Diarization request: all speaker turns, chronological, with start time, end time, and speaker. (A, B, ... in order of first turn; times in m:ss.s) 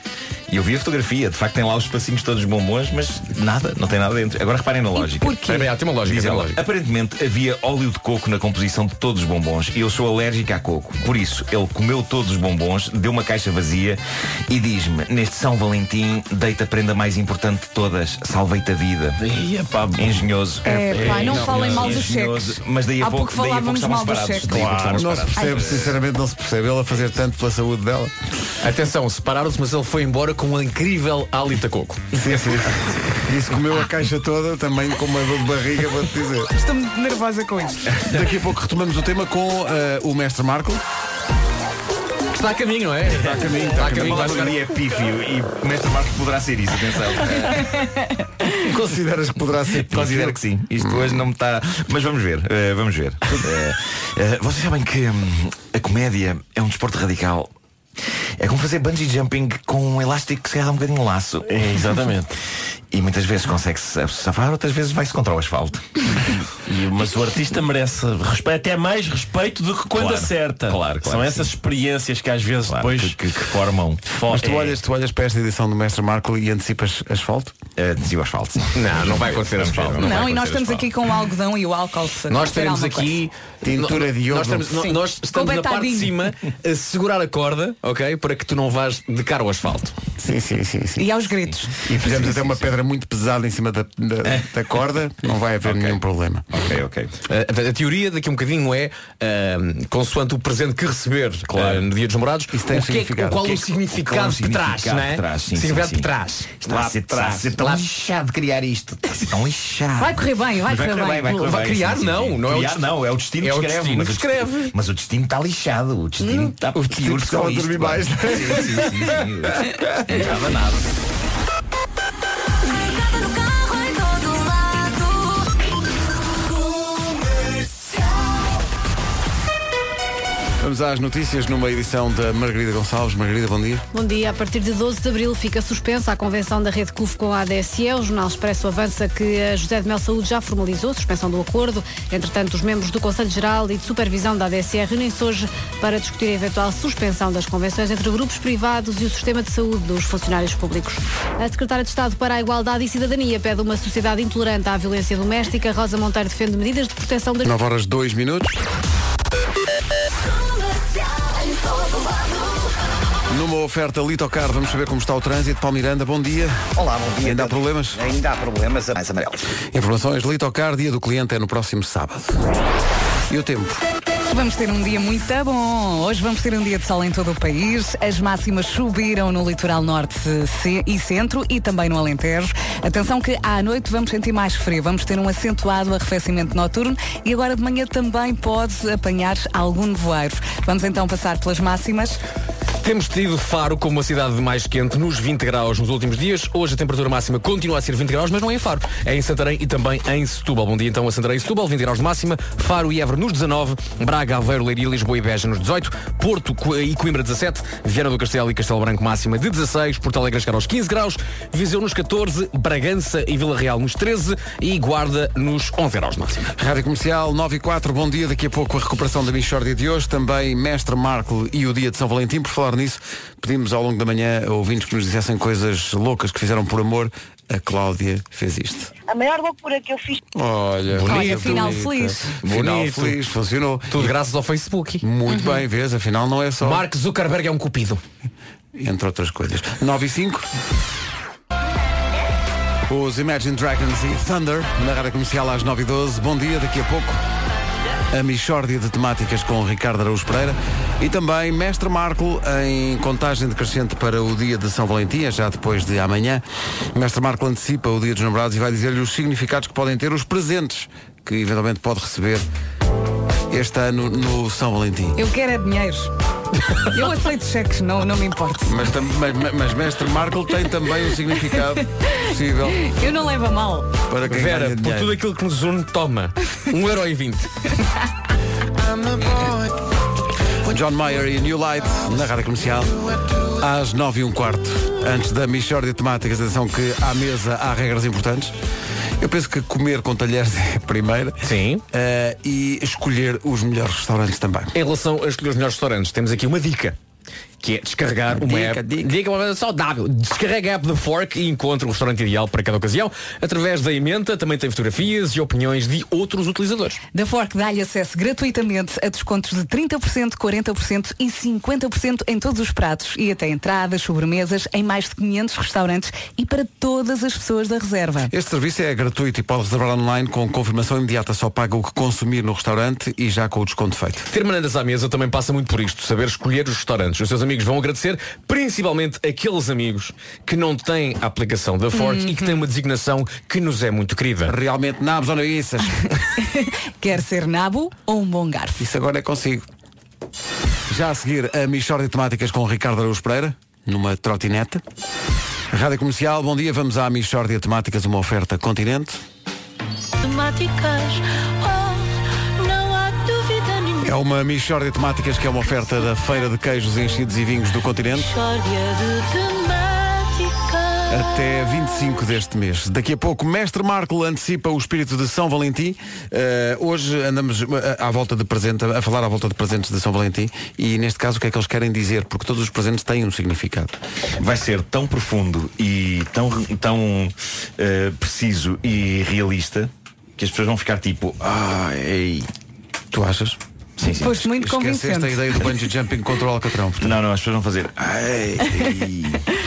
0:00.5-0:05.4 A
0:04.9-0:05.7 B
0:05.4-0:06.6 C
0:06.0-0:19.2 A
0:19.2-0:20.3 D
0:19.9-0:26.0 A
0:20.6-0:21.8 E
0:20.6-0:24.5 B
0:24.8-0:28.1 E
0:25.4-0:25.6 B
0:28.6-0:32.6 C
0:32.1-0:36.5 E
0:36.6-0:38.0 B
0:38.0-0:40.8 E
0:42.3-0:44.7 C
0:43.1-0:44.6 E
0:43.3-0:47.8 A
0:48.5-0:51.2 E
0:49.6-0:57.5 A
0:58.4-1:01.6 A
1:01.4-1:02.3 D
1:02.9-1:06.0 A
1:06.6-1:13.5 D
1:09.9-1:11.5 A
1:12.6-1:14.0 A
1:14.0-1:14.8 D
1:14.3-1:17.5 E
1:17.8-1:20.8 A
1:18.7-1:20.7 C
1:20.0-1:23.1 B
1:22.3-1:29.9 C
1:23.6-1:24.8 E
1:24.7-1:26.2 B
1:30.2-1:36.4 E
1:31.0-1:31.7 B
1:35.6-1:36.0 A
1:36.5-1:37.1 A
1:37.2-1:47.9 C
1:41.5-1:41.9 A
1:42.5-1:43.5 E
1:43.4-1:46.1 A
1:46.6-2:01.0 A
1:50.0-1:51.4 B
1:51.3-1:54.8 C
1:56.2-1:56.5 B
1:56.7-1:59.8 E
2:02.8-2:05.4 F
2:10.6-2:13.8 E
2:13.9-2:37.5 G
2:37.4-2:38.6 E
2:41.1-2:42.4 F
2:43.3-2:46.6 E
2:46.8-2:49.4 H
2:47.2-2:48.0 E
2:49.7-2:52.4 E
2:53.3-2:53.8 E
2:54.3-3:12.2 B
3:12.8-3:36.5 C
3:36.6-3:48.9 E
3:50.3-3:54.2 E
3:50.9-3:53.2 C
3:51.0-3:52.3 B
3:53.9-3:55.0 C
3:55.0-3:56.8 E
3:55.3-3:55.6 B
3:56.6-3:58.0 C
3:58.7-4:00.5 E
4:02.9-4:07.2 E
4:08.1-4:22.4 E
4:23.5-4:25.2 E
4:25.2-4:26.1 B
4:26.9-4:28.9 B
4:28.6-4:32.9 E
4:31.5-4:33.9 B
4:34.1-4:35.2 E
4:34.2-4:37.5 C
4:38.9-4:39.6 E
4:40.6-4:48.5 E
4:49.2-4:54.7 E
4:51.4-4:51.8 C
4:54.7-4:57.0 C
4:57.6-5:07.0 C
4:58.3-4:59.1 E
5:07.1-5:18.3 B
5:18.3-5:24.2 E
5:24.3-5:34.6 C
5:31.9-5:32.4 B
5:34.4-5:36.1 E
5:36.2-5:38.8 B
5:38.8-5:39.6 E
5:40.9-5:44.8 E
5:45.7-5:49.2 E
5:50.2-5:54.1 F
5:54.0-5:58.3 E
5:58.1-6:01.3 F
6:01.1-6:14.0 E
6:14.4-6:22.5 A
6:23.1-6:23.6 E
6:24.0-6:24.5 A
6:24.2-6:25.6 B
6:24.5-6:27.2 E
6:27.0-6:29.4 A